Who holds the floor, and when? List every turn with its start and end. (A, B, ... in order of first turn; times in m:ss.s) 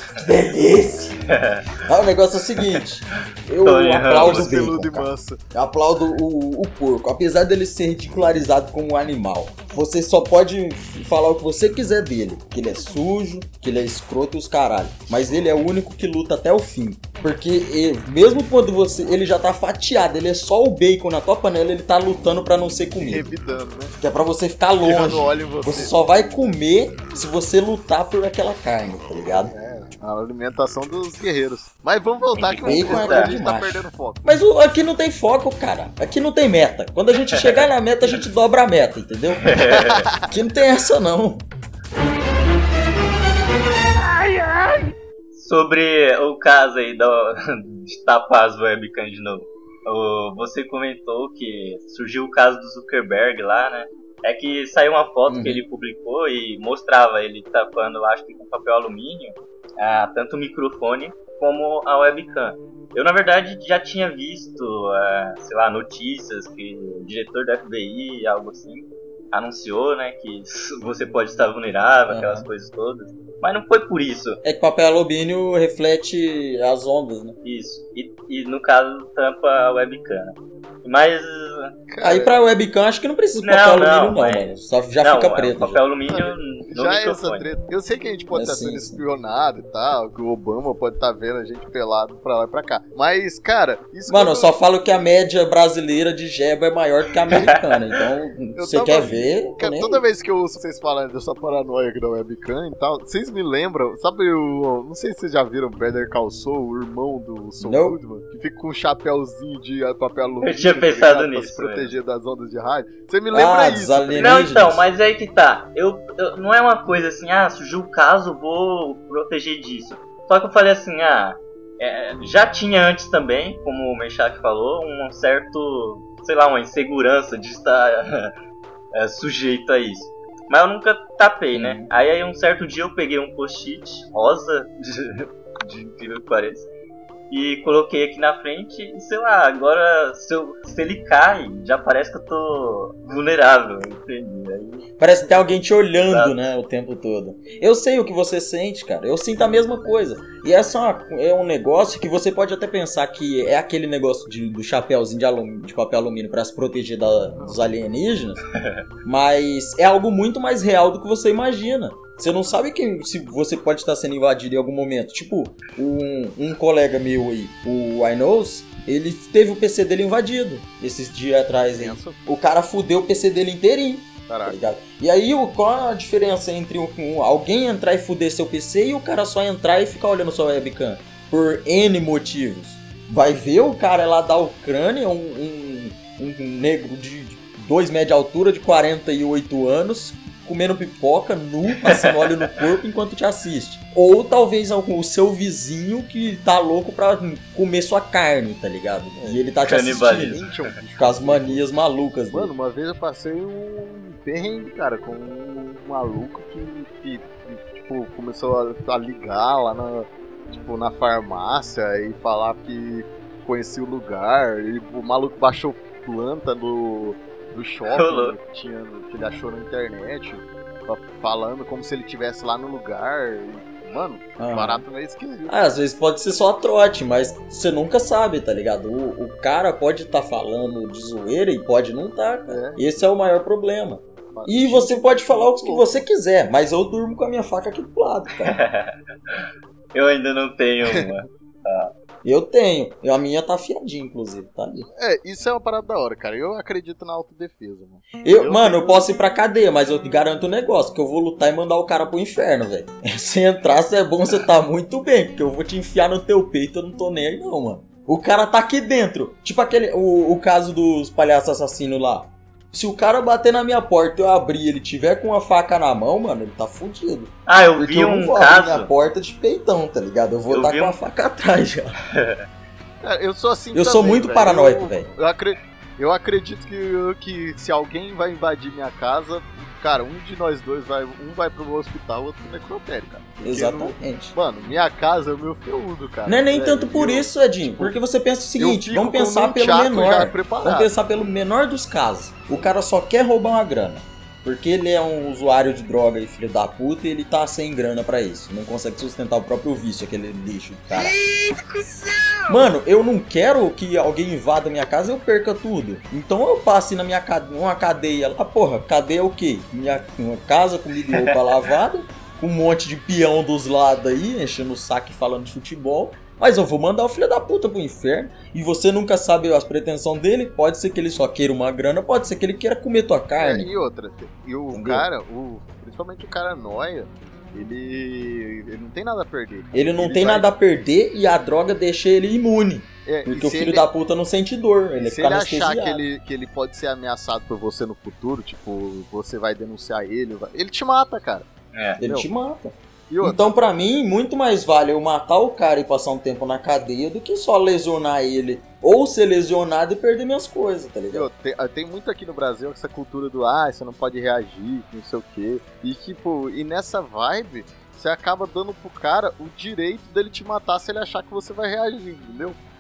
0:00.2-0:01.2 A
0:01.3-0:01.6 B
0:01.9-0:23.3 A
0:03.6-0:04.6 B
0:04.2-0:05.4 C
0:23.0-0:24.0 C
0:24.0-0:29.5 A
0:24.8-0:25.9 C
0:29.5-0:34.2 C
0:32.4-0:33.3 B
0:32.6-0:39.4 A
0:37.4-0:37.6 B
0:39.4-0:40.1 B
0:39.6-0:40.3 C
0:40.3-0:41.4 A
0:45.3-1:14.4 B
0:55.3-0:55.6 A
1:12.1-1:12.5 A
1:14.4-1:17.4 A
1:17.4-1:21.7 B
1:21.9-1:22.4 C
1:22.0-1:25.8 A
1:23.4-1:27.5 B
1:26.1-1:34.5 C
1:28.3-1:29.0 A
1:34.1-1:40.0 A
1:38.6-1:54.4 C
1:47.6-1:48.0 A
1:50.4-1:51.9 B
1:53.3-1:54.8 A
1:54.2-2:08.3 B
2:08.9-2:16.7 B
2:11.5-2:11.9 A
2:17.3-2:24.9 B
2:25.0-2:38.4 A
2:26.0-2:26.4 B
2:37.4-2:37.7 C
2:39.0-3:20.4 A
2:51.8-2:52.2 C
2:54.3-2:54.6 C
3:11.8-3:12.5 B
3:19.2-3:19.5 C
3:19.6-3:20.4 B
3:20.1-3:21.7 C
3:21.0-3:22.5 A
3:22.3-3:45.6 C
3:37.9-3:38.4 B
3:44.4-3:44.8 A
3:45.5-3:58.6 A
3:52.5-3:53.0 C
3:54.3-3:56.1 C
3:58.4-4:01.9 B
4:02.2-4:04.9 A
4:04.9-4:09.1 C
4:08.2-4:32.0 A
4:27.5-4:28.9 B
4:30.5-4:31.0 B
4:32.2-4:32.4 B
4:33.0-4:48.0 C
4:33.7-4:35.1 A
4:43.4-4:44.4 A
4:46.3-5:01.2 A
4:48.6-4:50.9 C
5:02.5-5:23.7 A
5:23.4-5:30.5 C
5:24.7-5:25.1 A
5:29.7-5:36.0 A
5:33.1-5:33.9 C
5:35.0-5:41.5 C
5:41.7-5:42.0 B
5:42.0-5:51.3 A
5:42.0-5:42.3 C
5:43.1-5:43.5 C
5:51.1-6:02.6 C